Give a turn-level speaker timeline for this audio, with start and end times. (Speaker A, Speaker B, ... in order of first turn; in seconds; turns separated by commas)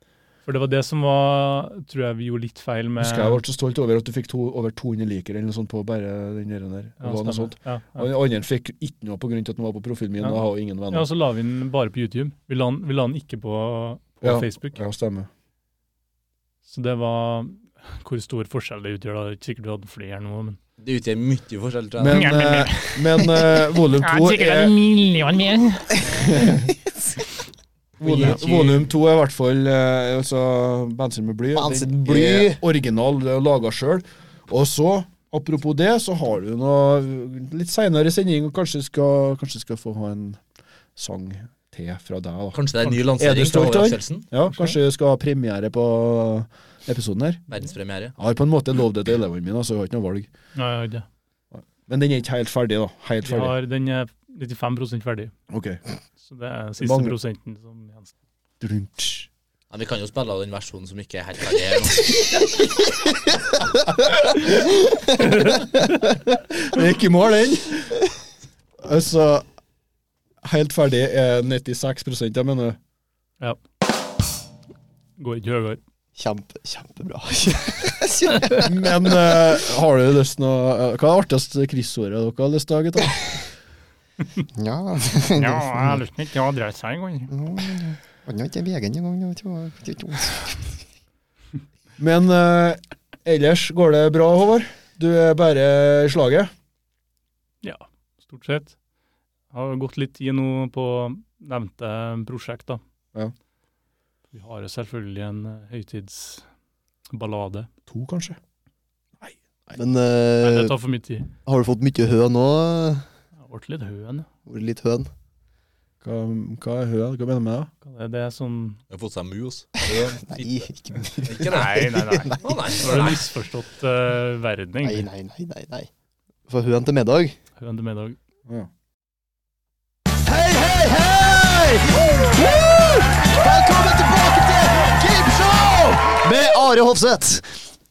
Speaker A: 0.4-3.4, Speaker B: 3.0-11.1, Speaker A: 7.0-8.1, Speaker A: 10.9-14.8, Speaker B: 14.2-15.3, Speaker A: 16.7-20.6, Speaker C: 20.8-22.2, Speaker B: 22.0-24.7, Speaker A: 22.1-23.2, Speaker A: 24.0-26.0, Speaker B: 26.1-26.7, Speaker B: 28.0-40.4, Speaker C: 28.0-28.9, Speaker D: 31.6-32.6, Speaker B: 41.0-47.4, Speaker C: 42.5-44.3, Speaker C: 47.5-48.1, Speaker B: 48.2-50.3, Speaker A: 50.5-51.0, Speaker B: 51.5-53.6, Speaker A: 53.2-55.3, Speaker B: 55.5-55.8, Speaker A: 56.2-58.1, Speaker B: 56.8-57.1, Speaker B: 58.6-59.3, Speaker C: 59.7-62.2, Speaker A: 65.2-65.7, Speaker B: 66.6-67.9, Speaker B: 68.8-69.4, Speaker B: 70.4-72.8, Speaker A: 75.2-75.8, Speaker D: 76.2-78.7, Speaker B: 78.6-83.3, Speaker D: 84.5-86.0, Speaker A: 85.3-87.3, Speaker D: 87.3-90.5, Speaker B: 92.0-96.5, Speaker A: 97.6-98.7, Speaker A: 99.5-102.8, Speaker A: 104.3-106.4, Speaker A: 107.1-107.7, Speaker B: 107.9-108.4, Speaker B: 109.2-109.8, Speaker D: 109.8-110.7, Speaker A: 110.4-111.3, Speaker D: 111.5-113.0, Speaker A: 113.4-114.3, Speaker D: 114.5-115.1, Speaker B: 116.0-117.7, Speaker A: 117.8-118.8, Speaker C: 118.9-120.7, Speaker D: 120.3-121.5, Speaker C: 121.2-123.2, Speaker A: 121.4-125.0, Speaker D: 124.8-125.9, Speaker D: 126.5-127.3, Speaker A: 127.6-128.2, Speaker D: 130.2-137.4